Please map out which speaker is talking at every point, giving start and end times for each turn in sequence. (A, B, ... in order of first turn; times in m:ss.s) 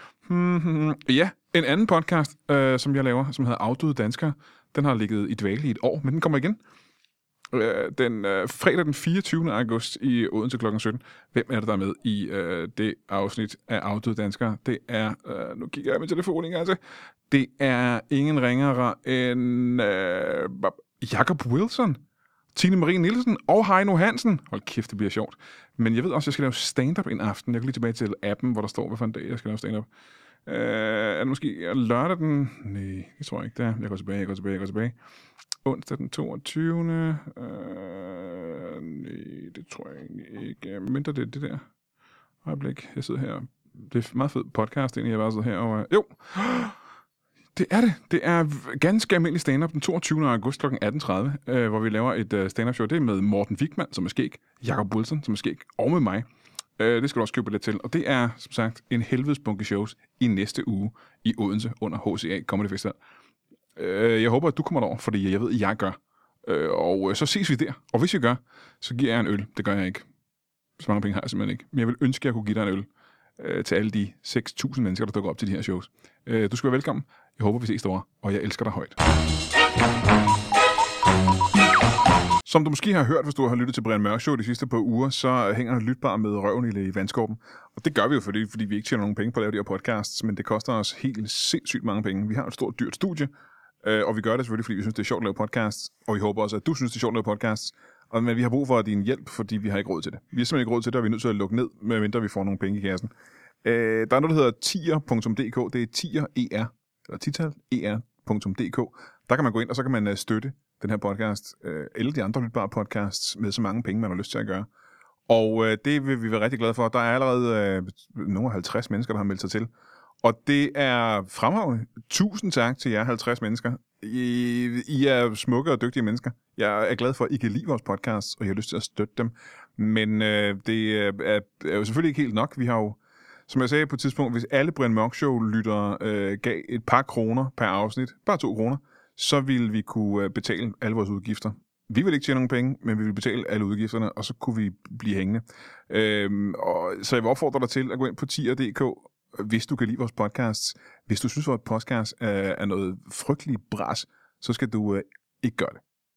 0:00.2-0:06.6 A
0:07.5-0:16.8 A
0:17.3-0:22.0 A
0:22.5-0:29.9 A
0:30.4-0:34.9 A
0:35.6-0:41.7 A
0:42.4-0:46.8 A
0:47.5-0:56.2 A
0:56.8-1:03.0 A
1:03.8-1:10.0 A
1:10.8-1:19.0 A
1:22.4-1:33.3 A
1:33.8-1:43.1 A
1:43.6-1:54.7 A
1:55.3-1:59.7 A
2:00.2-2:35.8 A